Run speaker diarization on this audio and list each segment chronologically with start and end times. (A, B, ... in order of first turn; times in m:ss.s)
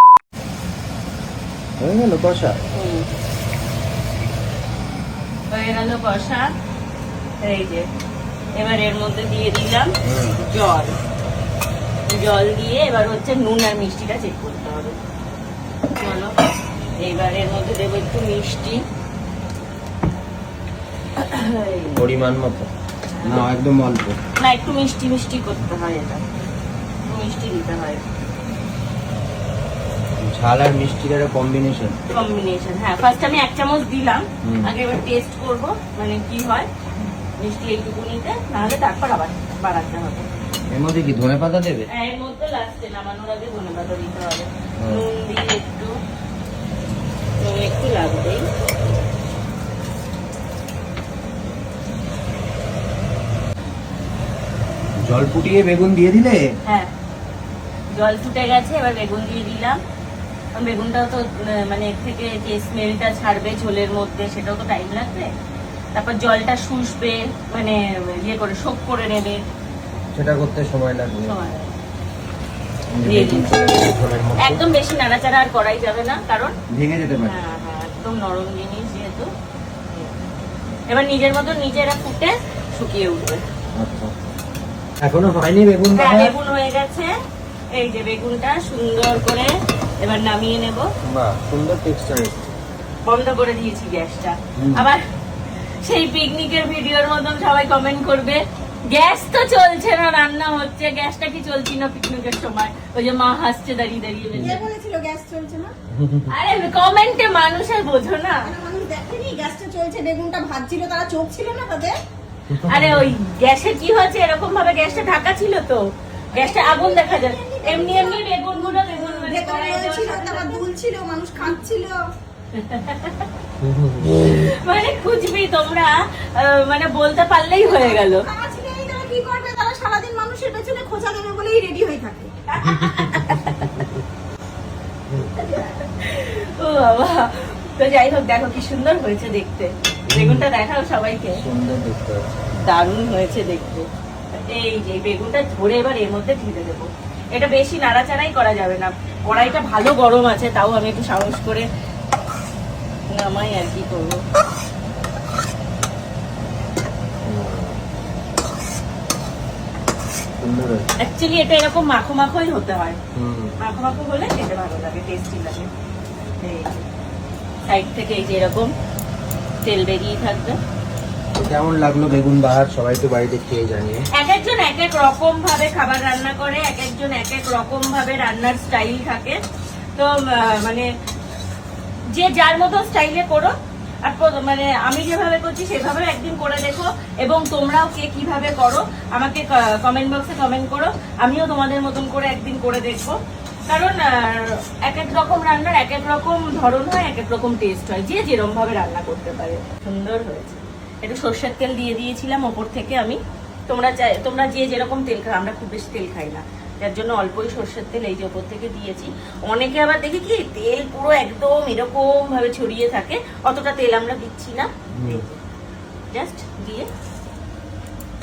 0:01.8-0:02.6 A
0:02.7-0:03.1 B
0:05.5-0:06.5 B
0:07.4-0:07.9 B
0:08.6-0:09.9 B
0:10.0-0:10.4 A
0:10.4-0:11.0 B
0:12.1-0:15.0 B
0:15.9-0:16.3 B
0:17.0-0:18.8 B
0:21.2-0:22.0 B
0:22.0-0:22.7 A
0:23.2-0:23.5 B
0:23.2-0:24.2 A
0:24.4-0:26.2 B
0:27.0-0:28.0 B
0:30.2-0:32.0 A
0:32.1-0:36.7 B
0:34.4-0:34.7 A
0:37.4-0:40.3 B
0:40.7-0:41.9 A
0:41.9-0:45.9 B
0:47.4-0:48.4 B
0:55.0-0:56.4 A
0:57.9-0:59.8 B
1:00.6-1:05.3 B
1:05.9-1:09.4 B
1:10.1-1:11.3 A
1:11.2-1:11.7 B
1:12.9-1:14.6 A
1:13.0-1:13.5 B
1:14.4-1:16.5 B
1:16.7-1:17.4 A
1:17.2-1:19.3 B
1:19.9-1:20.1 B
1:20.9-1:23.4 B
1:23.8-1:24.1 A
1:25.0-1:26.3 A
1:25.9-1:27.1 B
1:27.7-1:30.9 B
1:31.0-1:32.5 A
1:33.0-1:35.0 B
1:34.6-1:34.8 A
1:35.8-1:44.6 B
1:44.3-1:44.6 A
1:44.4-1:45.7 C
1:45.9-1:46.3 A
1:46.3-1:48.4 B
1:48.4-1:52.0 C
1:52.5-1:53.0 A
1:52.6-1:55.8 B
1:56.3-2:00.6 B
1:56.3-2:02.0 C
2:02.5-2:03.3 B
2:03.6-2:04.2 A
2:04.2-2:08.2 B
2:07.6-2:12.3 C
2:12.5-2:13.8 B
2:12.6-2:13.9 A
2:15.2-2:21.4 B
2:20.1-2:20.4 A
2:21.3-2:22.5 A
2:22.6-2:31.7 B
2:33.1-2:34.2 B
2:37.2-2:37.8 A
2:40.4-2:40.9 A
2:41.0-2:43.0 B
2:43.1-2:43.5 A
2:43.6-2:45.7 B
2:46.4-2:46.8 B
2:47.7-2:48.7 B
2:49.6-2:50.6 B
2:51.3-2:54.0 A
2:54.1-2:59.4 B
3:00.0-3:00.9 B
3:02.1-3:03.5 B
3:04.0-3:13.2 B
3:13.7-3:35.3 B
3:35.0-3:35.2 A
3:36.1-3:36.9 B